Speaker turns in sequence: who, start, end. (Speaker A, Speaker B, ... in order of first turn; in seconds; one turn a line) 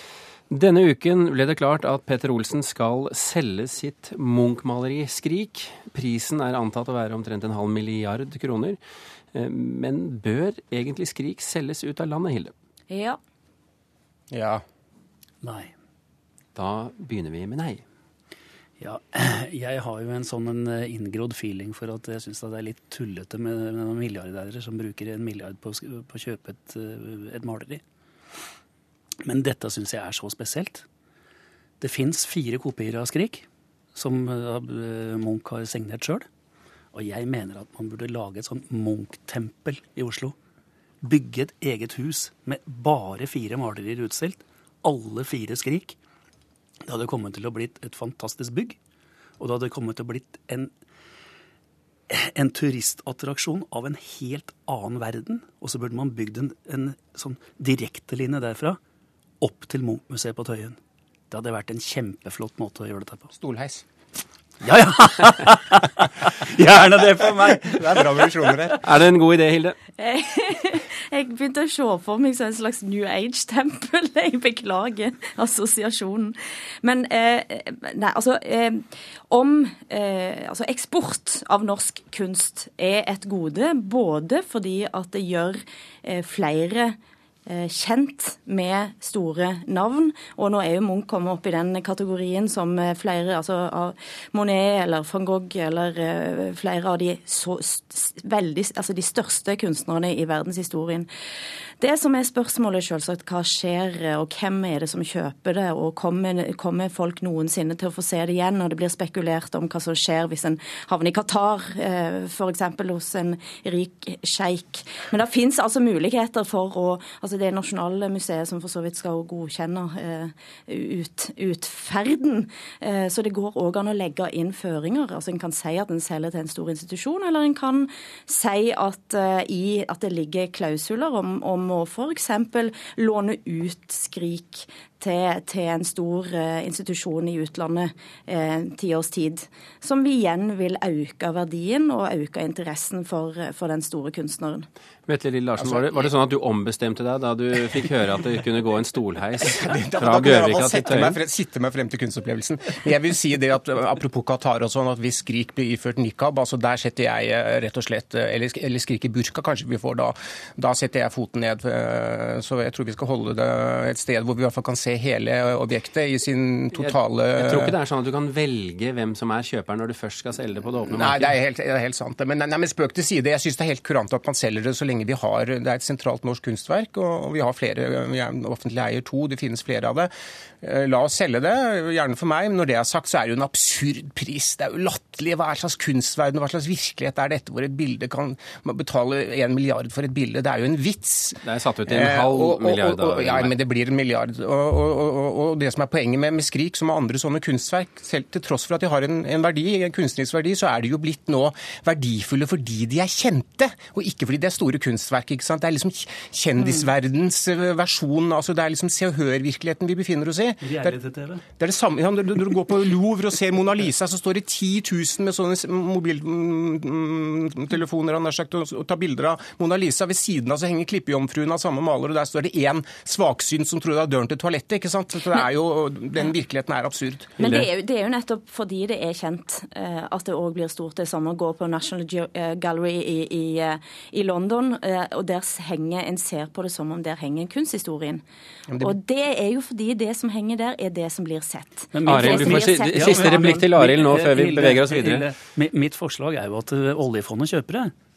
Speaker A: 0.5-8.8
Speaker A: 9.3-12.5
Speaker B: 12.9-13.2
Speaker C: 14.3-14.6
Speaker D: 15.4-15.7
Speaker A: 16.6-17.8
Speaker D: 18.8-27.8
Speaker D: 29.2-30.9
Speaker D: 31.8-36.3
Speaker D: 36.9-40.4
Speaker D: 41.0-46.0
Speaker D: 46.9-48.8
Speaker D: 49.4-50.7
Speaker D: 52.1-58.8
Speaker D: 59.4-60.8
Speaker D: 61.3-63.3
Speaker C: 63.3-63.8
Speaker D: 64.6-68.3
Speaker C: 67.5-68.8
Speaker A: 68.8-69.8
Speaker B: 70.0-101.1
Speaker B: 101.8-144.7
Speaker A: 145.1-151.2
Speaker C: 145.6-145.9
Speaker C: 149.4-167.8
Speaker A: 166.7-171.3
Speaker C: 170.9-180.1
Speaker C: 180.6-211.0
Speaker A: 191.4-193.5
Speaker D: 210.6-211.4
Speaker C: 211.6-227.4
Speaker B: 227.4-238.2
Speaker A: 227.4-227.7
Speaker B: 238.8-243.6
Speaker D: 241.9-247.9
Speaker A: 242.1-245.3